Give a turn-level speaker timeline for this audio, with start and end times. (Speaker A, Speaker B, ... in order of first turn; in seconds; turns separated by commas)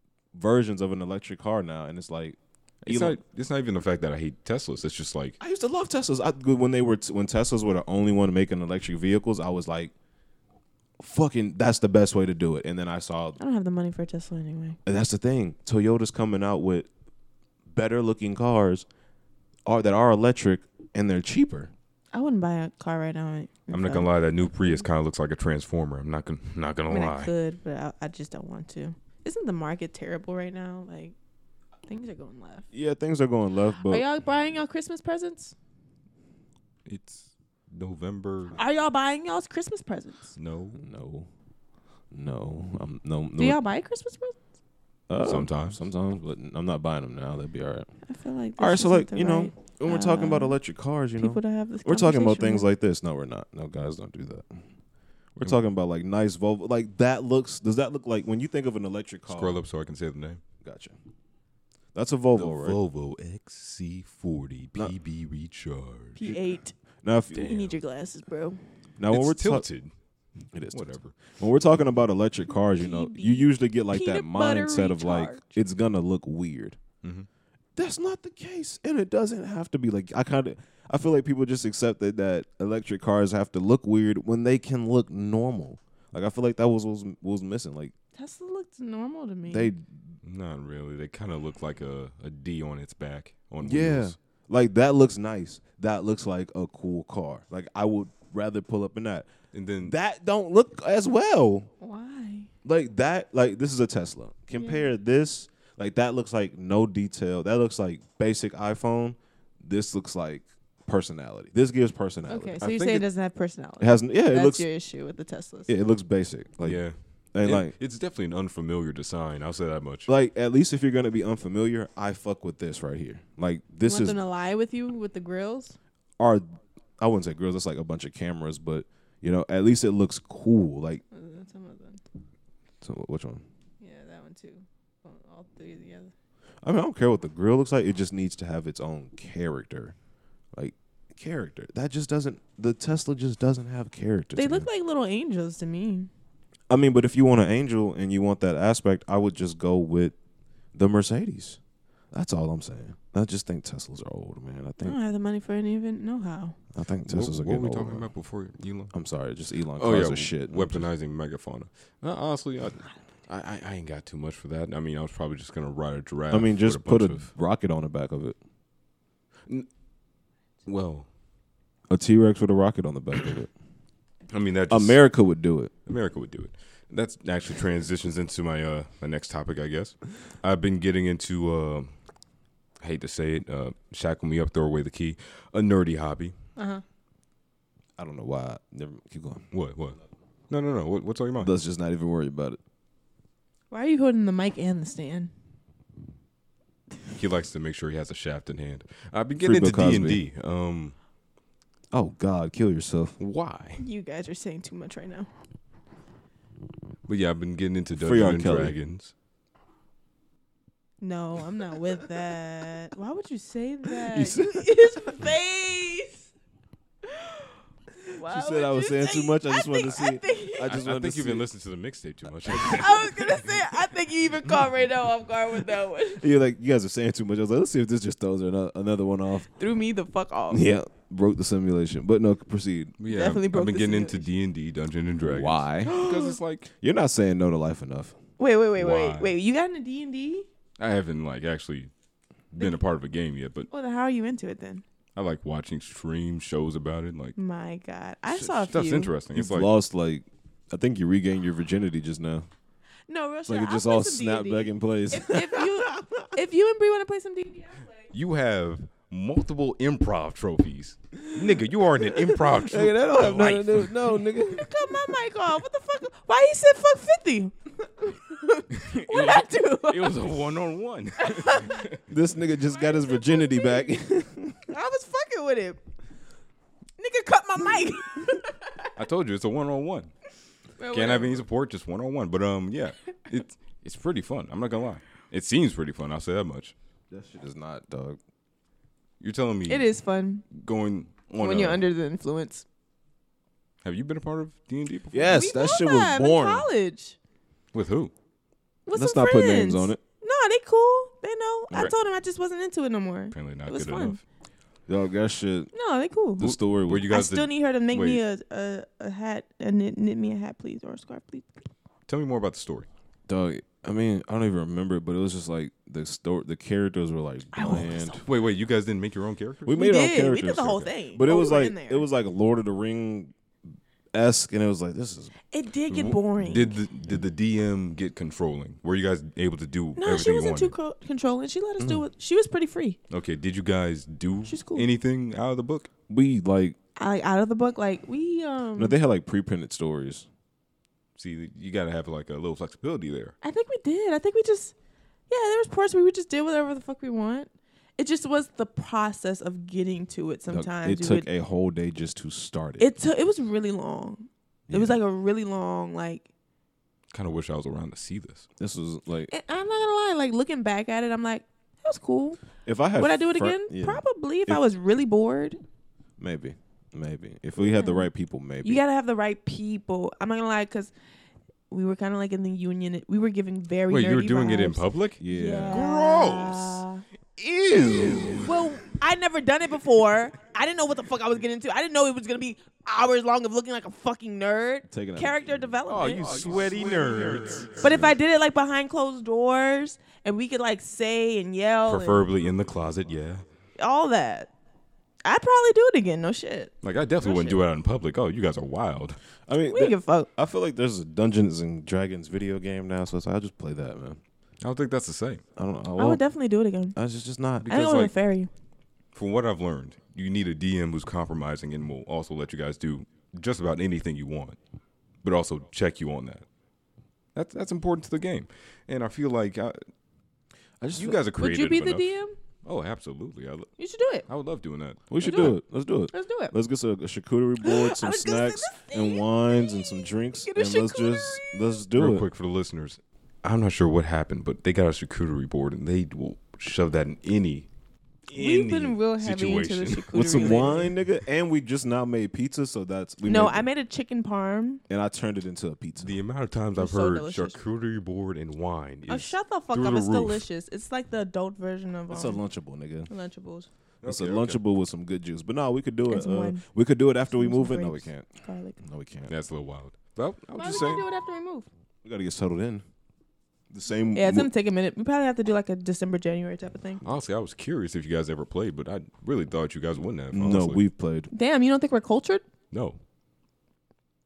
Speaker A: 0.3-3.2, Speaker B: 2.8-5.4, Speaker A: 5.4-9.9, Speaker A: 11.0-13.4, Speaker C: 13.4-14.8, Speaker A: 14.8-16.9, Speaker A: 17.7-18.9, Speaker A: 19.6-21.7, Speaker C: 22.1-24.9, Speaker B: 23.7-27.3, Speaker C: 26.9-31.1, Speaker C: 31.9-32.7, Speaker A: 32.7-34.0, Speaker C: 33.8-35.5, Speaker B: 36.9-38.6, Speaker C: 38.5-40.3, Speaker B: 40.4-40.8, Speaker A: 40.8-41.3, Speaker A: 42.1-43.6, Speaker C: 43.4-44.4, Speaker A: 45.1-47.9, Speaker B: 45.2-45.8, Speaker C: 48.1-50.6, Speaker A: 48.6-54.6, Speaker C: 51.2-52.7, Speaker A: 55.4-59.6, Speaker B: 59.3-60.4, Speaker A: 60.6-61.0, Speaker A: 61.9-62.8, Speaker B: 62.4-66.2, Speaker C: 66.2-66.7, Speaker A: 67.0-67.5, Speaker C: 67.3-68.6, Speaker B: 67.3-67.8, Speaker A: 69.0-69.7, Speaker B: 69.1-69.9, Speaker A: 70.5-76.8, Speaker B: 70.7-71.2, Speaker C: 72.8-75.6, Speaker B: 77.0-77.3, Speaker A: 77.8-87.9, Speaker C: 88.1-89.7, Speaker A: 89.5-89.9, Speaker B: 90.2-94.2, Speaker A: 93.6-99.3, Speaker B: 99.5-99.9, Speaker A: 99.8-101.7, Speaker C: 101.8-102.5, Speaker A: 102.6-113.0, Speaker C: 104.5-104.9, Speaker C: 112.3-115.7, Speaker A: 113.8-114.7, Speaker A: 115.7-116.8, Speaker B: 116.6-120.1, Speaker A: 117.3-117.7, Speaker A: 120.1-124.2, Speaker C: 123.8-125.8, Speaker A: 126.2-131.0, Speaker C: 131.1-132.0, Speaker A: 132.8-133.4, Speaker C: 133.8-136.1, Speaker A: 136.6-139.9, Speaker A: 140.5-144.7, Speaker C: 144.3-146.1, Speaker A: 146.7-150.1, Speaker A: 150.7-151.6, Speaker A: 152.1-155.0, Speaker C: 154.8-156.6, Speaker A: 156.7-158.1, Speaker B: 157.1-158.9, Speaker A: 158.9-160.9, Speaker B: 159.8-167.3, Speaker A: 166.3-168.4, Speaker B: 170.7-171.1, Speaker A: 171.9-173.5, Speaker B: 174.3-175.0, Speaker A: 174.7-175.7, Speaker B: 175.8-181.9, Speaker B: 182.8-186.3, Speaker C: 186.6-186.8, Speaker A: 188.0-189.4, Speaker B: 189.5-190.0, Speaker B: 190.5-191.5, Speaker A: 191.4-192.6, Speaker C: 193.7-195.3, Speaker B: 197.1-200.9, Speaker A: 199.4-200.2, Speaker A: 201.9-203.2, Speaker B: 203.2-203.8, Speaker C: 203.8-205.3, Speaker B: 207.1-209.1, Speaker A: 208.0-208.7, Speaker C: 211.0-216.3, Speaker A: 214.1-214.9, Speaker C: 217.0-217.5, Speaker C: 218.1-220.7, Speaker A: 218.2-221.4, Speaker B: 220.7-223.5, Speaker C: 222.5-226.2, Speaker A: 222.6-222.9, Speaker A: 226.2-229.5, Speaker C: 229.5-230.6, Speaker A: 230.5-233.0, Speaker B: 233.0-236.7, Speaker C: 233.1-234.3, Speaker A: 235.2-236.0, Speaker C: 235.8-236.3, Speaker A: 236.7-238.2, Speaker C: 238.4-240.5, Speaker B: 238.8-239.3, Speaker B: 240.8-241.9, Speaker B: 242.5-243.7, Speaker C: 243.7-244.8, Speaker B: 245.2-247.4, Speaker C: 247.4-249.1, Speaker B: 248.3-249.7, Speaker A: 249.3-252.5, Speaker C: 253.1-257.9, Speaker A: 253.5-256.3, Speaker B: 258.1-263.9, Speaker A: 262.1-264.9, Speaker C: 264.5-270.3, Speaker B: 268.7-272.0, Speaker C: 271.2-271.8, Speaker A: 272.1-274.7, Speaker C: 272.7-273.9, Speaker C: 274.7-275.8, Speaker C: 277.0-278.9, Speaker B: 278.9-280.1, Speaker C: 280.8-281.4, Speaker B: 280.9-286.7, Speaker A: 287.1-288.2, Speaker B: 289.2-289.9, Speaker C: 289.7-290.4, Speaker B: 290.5-291.8, Speaker C: 291.4-292.6, Speaker B: 293.8-295.3, Speaker A: 295.1-296.7, Speaker C: 295.3-297.2, Speaker B: 297.7-298.1, Speaker C: 298.9-304.2, Speaker A: 298.9-300.0, Speaker B: 303.3-304.2, Speaker A: 304.9-305.7, Speaker C: 305.7-306.5, Speaker A: 306.4-307.1, Speaker B: 306.4-308.2, Speaker C: 307.1-311.7, Speaker B: 312.1-312.9, Speaker A: 313.3-318.2, Speaker C: 317.5-318.2, Speaker B: 317.7-319.8, Speaker A: 319.6-323.3, Speaker C: 319.7-322.1, Speaker A: 324.1-325.3, Speaker C: 325.5-326.8, Speaker B: 325.9-330.7, Speaker C: 330.0-333.0, Speaker B: 333.1-335.9, Speaker C: 334.5-334.9, Speaker A: 336.1-336.8, Speaker C: 336.9-339.0, Speaker A: 338.8-340.3, Speaker B: 341.1-343.3, Speaker C: 343.4-344.7, Speaker C: 345.3-351.3, Speaker A: 350.5-352.9, Speaker C: 352.8-356.3, Speaker A: 354.7-355.0, Speaker B: 357.1-358.4, Speaker A: 358.6-359.3, Speaker C: 359.3-362.4, Speaker A: 362.6-364.6, Speaker C: 363.0-365.6, Speaker A: 366.2-368.8, Speaker C: 367.6-368.1, Speaker C: 368.6-370.9, Speaker C: 371.7-377.0, Speaker B: 373.9-376.8, Speaker A: 375.2-375.9, Speaker B: 377.4-378.5, Speaker A: 377.8-378.4, Speaker C: 377.9-386.6, Speaker A: 384.9-388.1, Speaker B: 385.9-388.0, Speaker C: 387.8-392.3, Speaker B: 391.9-393.4, Speaker C: 393.8-394.5, Speaker C: 395.2-397.6, Speaker B: 396.8-399.2, Speaker A: 399.5-404.2, Speaker C: 399.7-400.3, Speaker B: 404.6-405.4, Speaker A: 405.6-406.2, Speaker C: 406.0-407.0, Speaker A: 406.9-407.7, Speaker B: 407.6-408.1, Speaker C: 407.7-408.5, Speaker B: 409.1-414.6, Speaker B: 415.2-416.4, Speaker B: 417.3-419.8, Speaker A: 420.8-421.2, Speaker B: 420.9-422.1, Speaker C: 421.4-422.4, Speaker B: 422.6-423.7, Speaker C: 423.8-424.2, Speaker B: 424.3-425.5, Speaker A: 425.1-432.3, Speaker C: 425.2-425.5, Speaker C: 426.1-426.5, Speaker C: 427.6-429.8, Speaker C: 430.4-431.8, Speaker B: 431.9-437.7, Speaker B: 438.3-440.8, Speaker C: 438.3-440.9, Speaker A: 440.1-443.7, Speaker C: 443.2-444.8, Speaker A: 444.9-446.2, Speaker B: 446.0-450.4, Speaker C: 446.8-447.6, Speaker C: 449.1-452.4, Speaker A: 452.1-453.1, Speaker C: 453.1-453.7, Speaker B: 454.0-454.6, Speaker A: 454.0-458.3, Speaker C: 456.1-456.6, Speaker C: 457.3-458.8, Speaker A: 458.8-459.3, Speaker B: 459.3-461.0, Speaker C: 460.5-461.7, Speaker A: 462.0-462.8, Speaker A: 463.7-464.5, Speaker C: 464.1-467.0, Speaker B: 467.0-470.8, Speaker A: 470.3-471.3, Speaker C: 471.3-472.4, Speaker B: 472.7-473.0